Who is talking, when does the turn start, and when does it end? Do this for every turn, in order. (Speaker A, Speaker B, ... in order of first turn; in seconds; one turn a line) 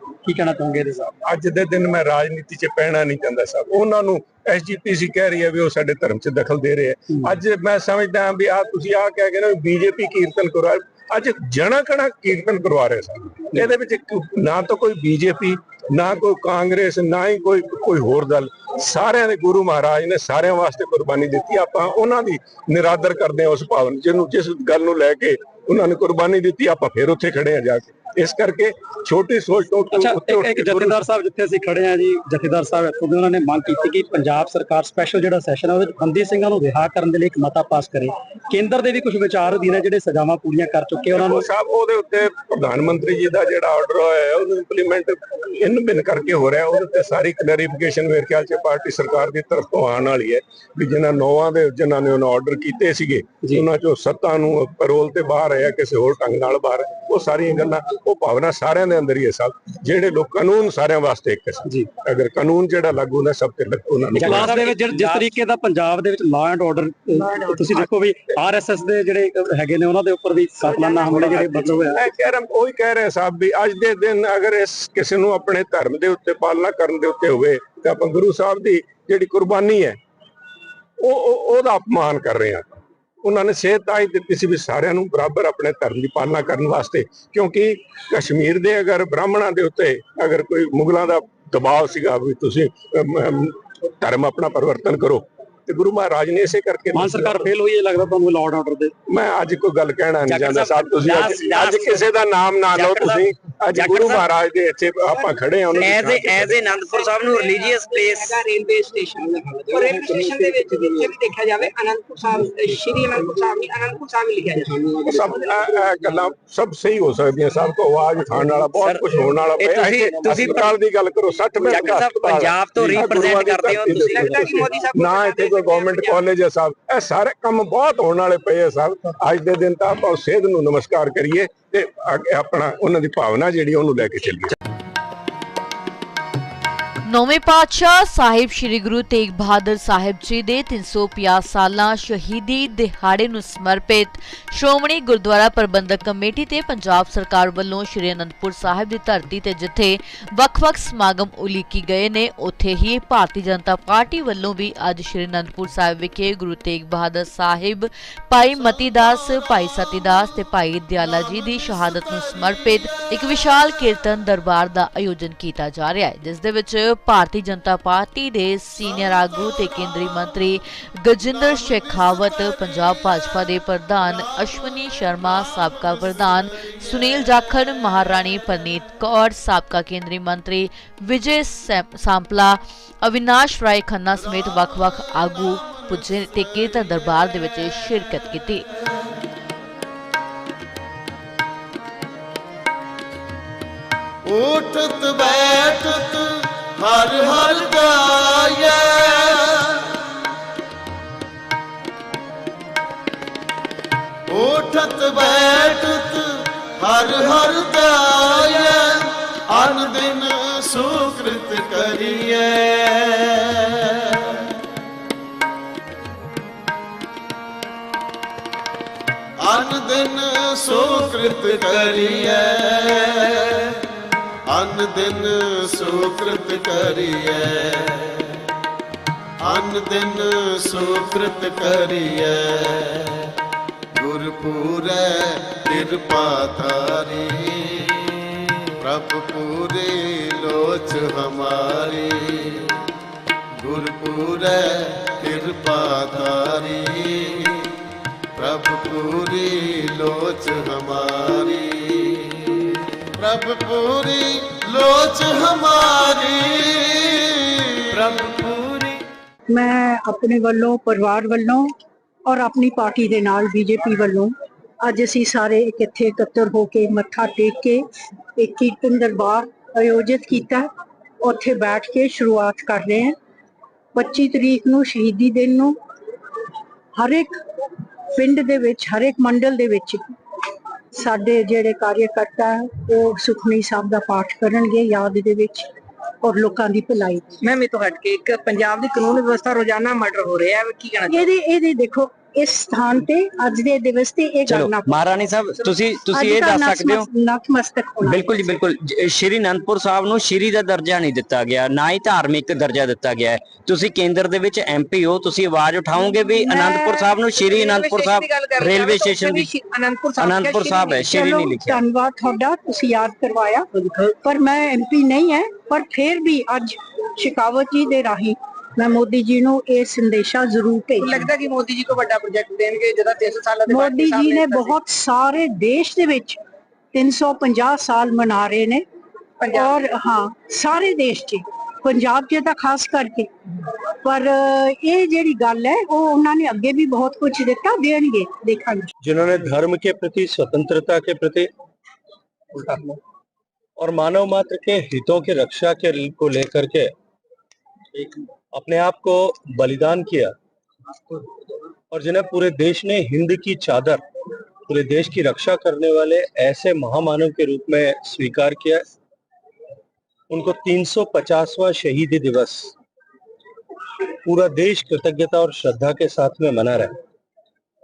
Speaker A: 0.2-1.1
Speaker B: 1.2-31.0
Speaker A: 29.9-41.4
Speaker B: 41.1-64.6
Speaker A: 64.1-72.0
Speaker C: 64.3-65.2
Speaker B: 71.1-80.0
Speaker B: 81.0-97.5
Speaker A: 96.9-98.9
Speaker B: 99.1-106.6
Speaker C: 100.3-102.0
Speaker C: 102.7-103.2
Speaker C: 103.7-104.2
Speaker C: 105.8-108.4
Speaker D: 106.8-115.6
Speaker B: 115.0-134.5
Speaker C: 118.7-119.0
Speaker C: 119.6-120.7
Speaker C: 121.6-124.5
Speaker D: 123.8-126.2
Speaker E: 137.0-188.7
Speaker F: 194.2-200.0
Speaker F: 204.3-214.5
Speaker F: 219.4-223.8
Speaker F: 224.5-228.4
Speaker F: 229.4-233.3
Speaker F: 233.9-238.1
Speaker F: 238.8-242.8
Speaker F: 243.6-247.7
Speaker F: 248.3-259.0
Speaker G: 259.5-261.7
Speaker G: 262.2-267.8
Speaker G: 268.4-270.7
Speaker G: 271.2-273.1
Speaker G: 273.9-275.8
Speaker G: 276.9-277.4
Speaker G: 278.1-280.1
Speaker G: 280.9-285.7
Speaker G: 286.2-287.4
Speaker D: 287.4-291.3
Speaker G: 291.1-294.9
Speaker C: 294.4-297.1
Speaker G: 296.1-298.4
Speaker C: 298.0-309.4
Speaker D: 307.3-311.2
Speaker C: 310.2-311.8
Speaker G: 311.1-321.2
Speaker D: 321.0-324.8
Speaker G: 323.7-326.4
Speaker G: 326.9-328.8
Speaker D: 329.4-329.8
Speaker G: 329.5-333.3
Speaker G: 334.0-338.9
Speaker H: 339.0-341.5
Speaker A: 342.6-342.9
Speaker H: 343.8-346.9
Speaker H: 348.5-350.3
Speaker H: 351.9-354.0
Speaker H: 354.7-358.8
Speaker H: 360.3-362.7
Speaker H: 364.2-366.9